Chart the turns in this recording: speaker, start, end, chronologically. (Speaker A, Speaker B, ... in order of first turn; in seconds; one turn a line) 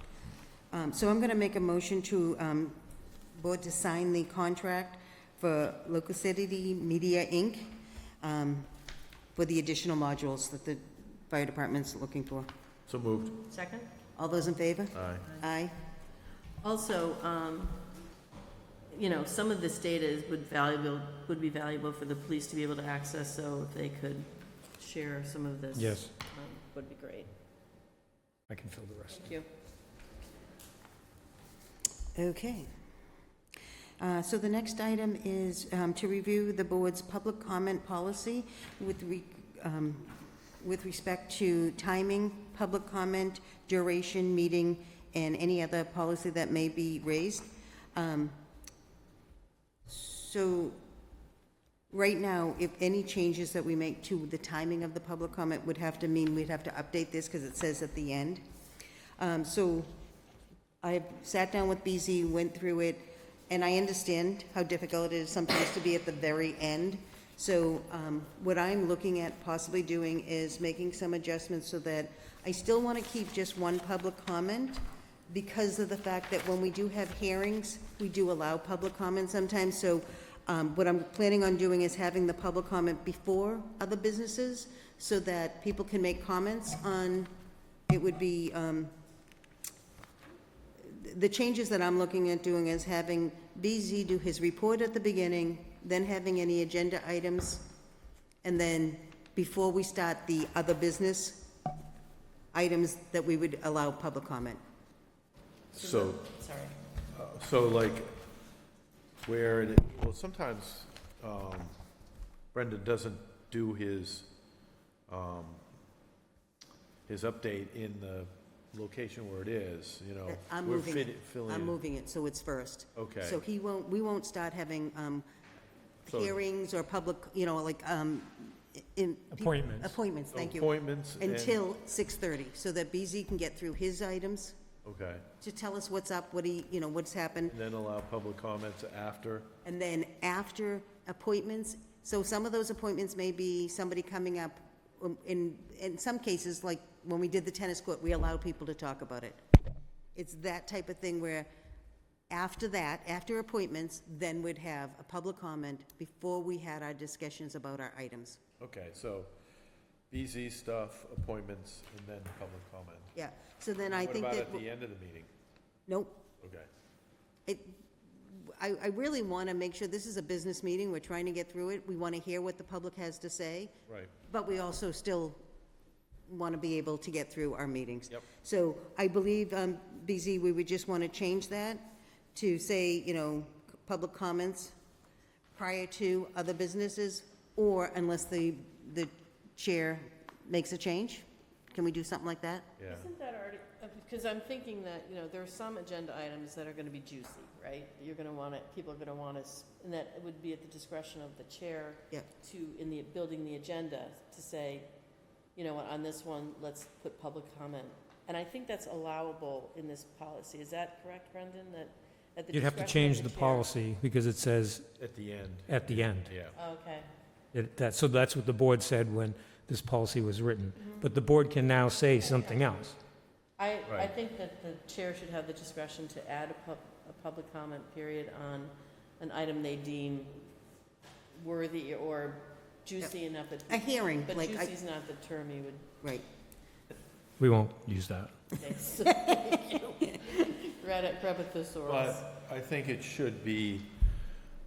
Speaker A: 0.7-2.8
Speaker A: 3.4-8.7
Speaker A: 9.4-12.5
Speaker B: 12.9-13.4
Speaker C: 13.5-13.9
Speaker A: 14.2-15.7
Speaker B: 14.9-15.3
Speaker C: 16.6-17.9
Speaker C: 18.9-27.3
Speaker D: 25.7-26.1
Speaker D: 28.5-29.3
Speaker C: 29.1-29.5
Speaker A: 32.1-32.7
Speaker A: 34.0-48.4
Speaker A: 49.9-50.8
Speaker A: 51.9-58.4
Speaker A: 59.2-59.9
Speaker A: 60.8-87.3
Speaker A: 87.9-88.9
Speaker A: 90.8-97.7
Speaker A: 98.4-101.5
Speaker A: 102.5-104.6
Speaker B: 105.7-106.3
Speaker C: 105.8-106.8
Speaker B: 107.1-108.1
Speaker B: 109.2-111.8
Speaker B: 112.5-114.3
Speaker B: 115.1-115.6
Speaker B: 117.1-121.8
Speaker A: 120.3-125.3
Speaker B: 123.0-123.4
Speaker A: 126.0-134.6
Speaker B: 126.1-126.3
Speaker D: 129.3-129.9
Speaker B: 130.3-131.6
Speaker B: 134.8-135.2
Speaker A: 135.4-137.6
Speaker B: 137.5-139.5
Speaker A: 139.6-149.4
Speaker A: 150.2-151.5
Speaker A: 152.3-158.4
Speaker B: 158.6-159.3
Speaker B: 160.1-163.1
Speaker A: 163.2-164.7
Speaker B: 163.8-165.3
Speaker A: 165.9-166.2
Speaker B: 166.4-166.7
Speaker A: 167.5-173.7
Speaker A: 174.3-175.4
Speaker A: 176.3-181.8
Speaker A: 182.3-184.8
Speaker A: 185.5-192.8
Speaker B: 192.8-193.1
Speaker C: 192.9-204.9
Speaker C: 205.6-213.7
Speaker D: 212.5-215.0
Speaker B: 215.0-216.5
Speaker D: 215.7-216.3
Speaker C: 216.5-217.1
Speaker D: 217.5-223.0
Speaker C: 220.8-221.1
Speaker C: 222.1-222.7
Speaker C: 223.6-230.5
Speaker C: 231.3-235.9
Speaker A: 233.7-234.7
Speaker D: 237.4-238.3
Speaker C: 238.6-242.3
Speaker B: 241.9-243.9